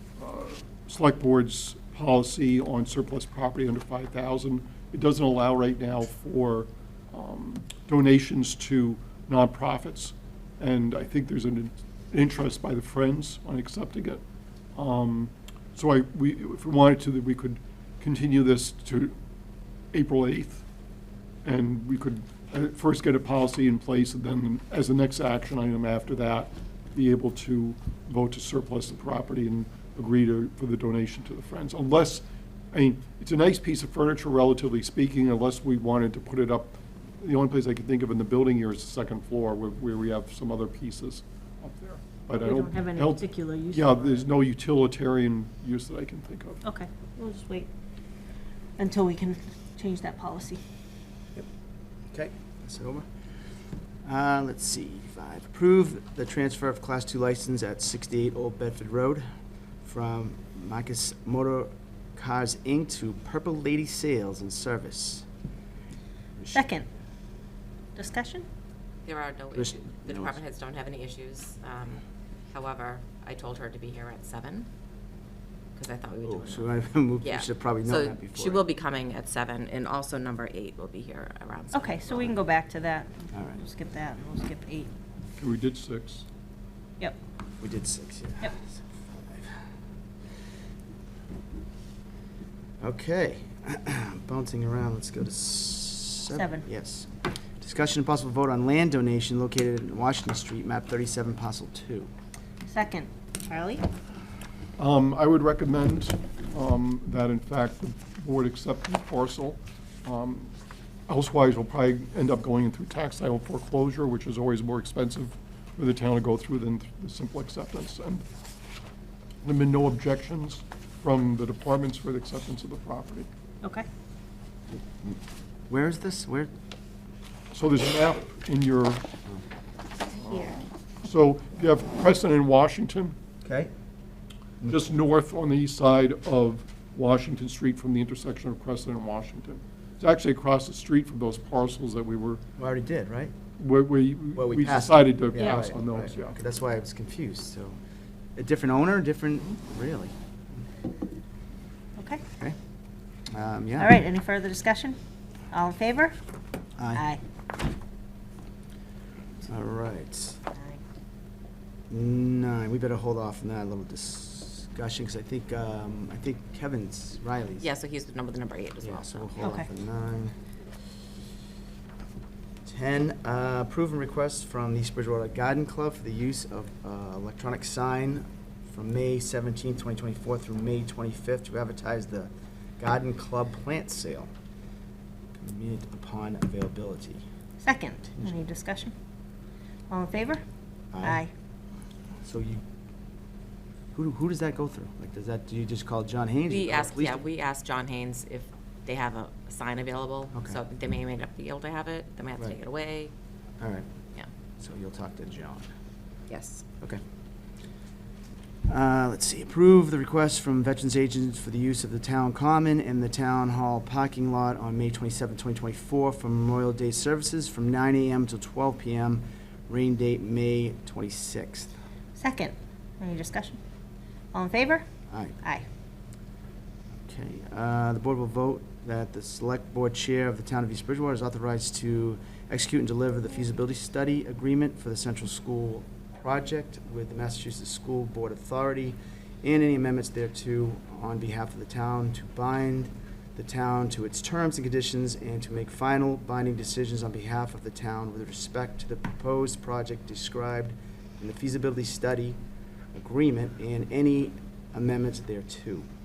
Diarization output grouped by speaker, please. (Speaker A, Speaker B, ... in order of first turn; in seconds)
Speaker A: 0.2-14.2, 14.8-19.2, 19.9-20.6, 21.4-46.6, 85.4-86.3, 104.8-110.5, 111.1-118.3, 119.4-123.3, 127.5-129.1, 131.0-133.2, 134.7-142.4, 143.6-146.3
Speaker B: 42.4-44.2, 46.6-47.7, 48.8-50.6, 66.5-66.9, 68.0-68.5, 81.7-84.9, 96.3-96.7, 102.6-103.8, 130.2-130.6, 152.0-152.2, 153.8-155.0, 155.5-156.2, 156.9-157.2, 160.6-160.8, 169.4-169.7, 187.6-188.9, 189.9-190.4, 191.0-191.3, 222.2-223.6, 224.3-224.8
Speaker C: 52.1-53.1, 54.0-59.2, 59.8-65.2, 69.5-70.4, 76.2-78.7, 83.3-83.6, 87.6-89.6, 92.8-102.1, 125.7-126.5, 133.4-133.7, 134.6-134.9, 142.6-143.3, 144.4-147.8, 148.4-150.6, 153.3-154.0, 156.8-157.0, 159.4-160.4, 161.9-167.7, 168.8-170.4, 172.7-184.3, 185.4-187.2, 190.9-191.2, 192.2-192.6, 193.9-197.2, 200.3-200.6, 203.6-203.9, 204.6-205.7, 208.7-221.7, 225.1-225.4, 227.0-252.4, 252.9-255.9
Speaker D: 69.0-74.7, 75.8-76.7, 77.2-82.4, 167.6-169.3, 196.5-203.1, 206.3-206.6